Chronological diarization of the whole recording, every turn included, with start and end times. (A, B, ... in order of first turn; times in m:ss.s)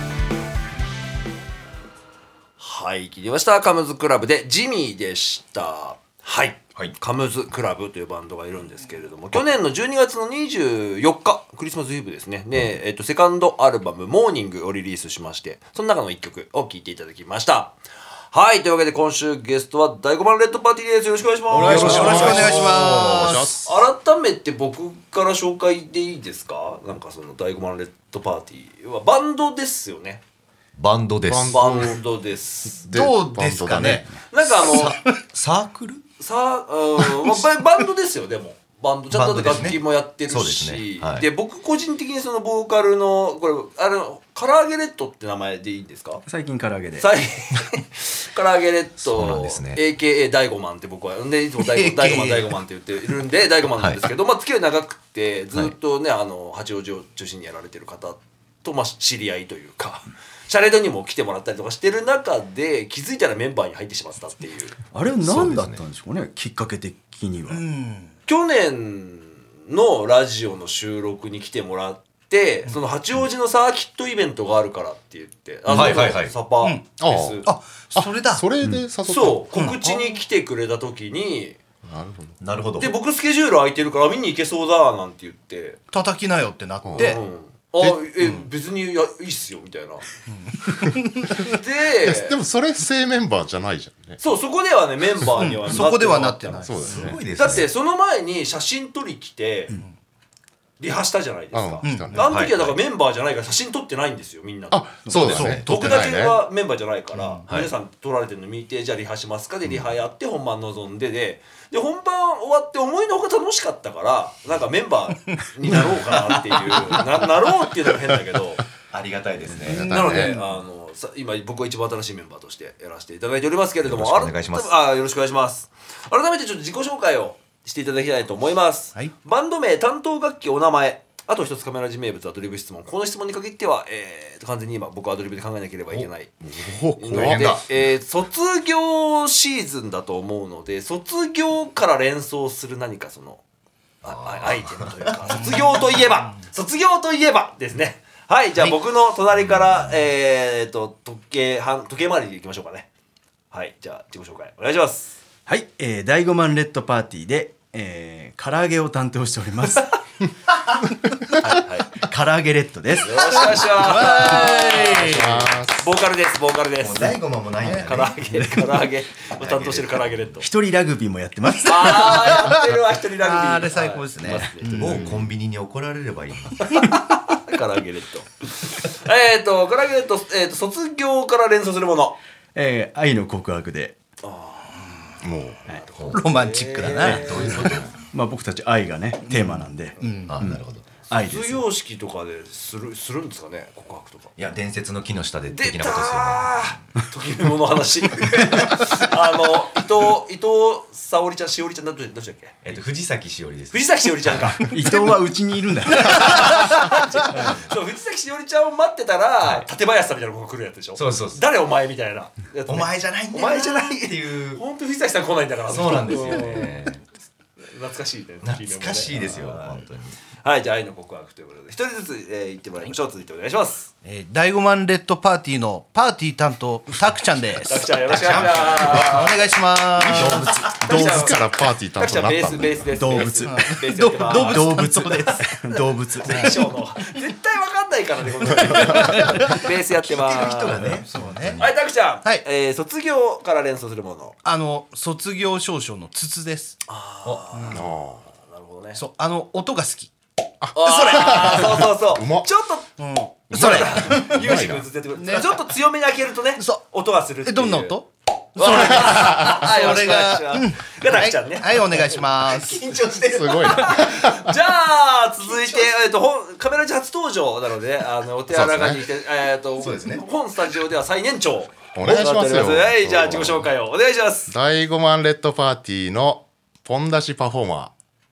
0:02.6-0:17.8 A
0:18.3-0:23.0 A
0:21.5-0:23.4 B
0:21.5-0:23.6 C
0:21.7-0:22.2 D
0:21.7-0:23.8 E
0:23.6-0:30.2 A
0:30.7-0:31.7 B
0:31.2-0:32.0 E
0:31.5-0:32.8 A
0:32.7-0:34.0 E
0:32.9-0:34.0 C
0:33.3-0:36.0 B
0:34.3-0:35.0 A
0:36.2-0:46.2 A
0:39.1-0:41.3 B
0:46.3-0:47.1 D
0:47.0-1:04.8 A
0:49.1-0:49.8 B
0:51.6-0:52.5 C
0:53.8-0:54.0 B
1:04.9-1:07.6 D
1:05.2-1:05.8 B
1:07.5-1:08.1 C
1:08.3-1:17.4 A
1:15.7-1:16.4 B
1:17.0-1:19.4 E
1:17.4-1:18.4 C
1:19.0-1:21.6 A
1:19.5-1:20.0 C
1:21.8-1:22.4 E
1:22.4-1:22.9 B
1:22.8-1:25.8 A
1:25.9-1:27.2 C
1:26.8-1:27.2 E
1:27.0-1:30.0 A
1:31.4-1:32.4 A
1:31.4-1:34.2 E
1:34.2-1:36.6 A
1:35.4-1:36.8 C
1:36.6-1:37.2 E
1:36.8-1:37.7 B
1:37.4-1:39.7 A
1:40.8-1:58.6 A
1:41.5-1:42.7 E
1:41.8-1:42.2 C
1:42.2-1:42.7 B
1:44.7-1:46.4 E
1:45.2-1:46.0 C
1:47.5-1:47.7 B
1:56.1-1:56.9 B
1:58.9-2:00.0 B
1:59.7-2:00.4 E
1:59.8-2:16.4 A
2:03.8-2:04.7 B
2:15.9-2:17.4 E
2:17.0-2:23.4 A
2:17.1-2:17.6 B
2:24.0-2:32.9 A
2:24.0-2:24.9 B
2:33.5-2:35.2 A
2:35.5-2:40.0 D
2:41.4-2:42.0 A
2:41.5-2:43.5 D
2:43.0-2:50.4 A
2:43.8-2:45.3 C
2:44.9-2:45.8 E
2:46.8-2:48.6 B
2:49.4-2:50.4 B
2:50.4-2:52.5 D
2:51.6-2:55.1 A
2:53.2-2:54.9 C
2:54.2-2:55.2 D
2:54.8-2:56.8 B
2:56.7-3:02.2 A
3:02.5-3:04.0 D
3:04.2-3:04.7 A
3:05.2-3:05.6 E
3:05.7-3:07.8 A
3:05.9-3:06.2 B
3:06.1-3:07.4 C
3:06.8-3:07.9 B
3:08.1-3:11.6 D
3:09.4-3:10.3 C
3:10.2-3:10.8 B
3:11.1-3:14.3 A
3:14.4-3:16.8 B
3:15.5-3:22.8 A
3:22.6-3:24.6 B
3:23.7-3:25.1 A
3:24.7-3:26.8 D
3:26.0-3:36.9 A
3:26.4-3:26.9 C
3:27.3-3:27.6 D
3:30.9-3:31.4 B
3:32.6-3:34.6 B
3:35.7-3:37.0 B
3:37.6-3:39.8 A
3:38.4-3:40.2 B
3:40.4-3:43.9 A
3:44.0-3:51.3 C
3:47.6-3:49.5 A
3:48.1-3:49.2 B
3:50.0-3:50.8 B
3:50.7-4:00.8 A
3:50.8-3:52.9 E
3:52.9-3:53.7 D
3:53.4-3:55.5 C
3:54.2-3:56.6 D
3:58.8-3:59.7 C
3:59.1-3:59.4 B
3:59.9-4:01.8 B
4:01.1-4:01.6 C
4:01.6-4:04.4 A
4:04.4-4:06.8 C
4:06.9-4:09.0 A
4:07.7-4:08.2 E
4:09.0-4:10.1 C
4:10.6-4:12.5 E
4:10.7-4:12.9 A
4:10.8-4:11.7 C
4:13.0-4:14.4 C
4:13.5-4:18.0 A
4:13.5-4:14.8 E
4:15.2-4:15.5 C
4:16.6-4:16.8 C
4:17.4-4:22.8 C
4:18.6-4:22.2 A
4:18.6-4:19.7 E
4:22.4-4:24.0 B
4:23.2-4:24.5 E
4:23.6-4:34.5 A
4:25.4-4:25.9 B
4:28.5-4:29.0 E
4:29.8-4:30.2 B
4:31.9-4:33.7 E
4:32.0-4:32.3 B
4:34.5-4:37.9 E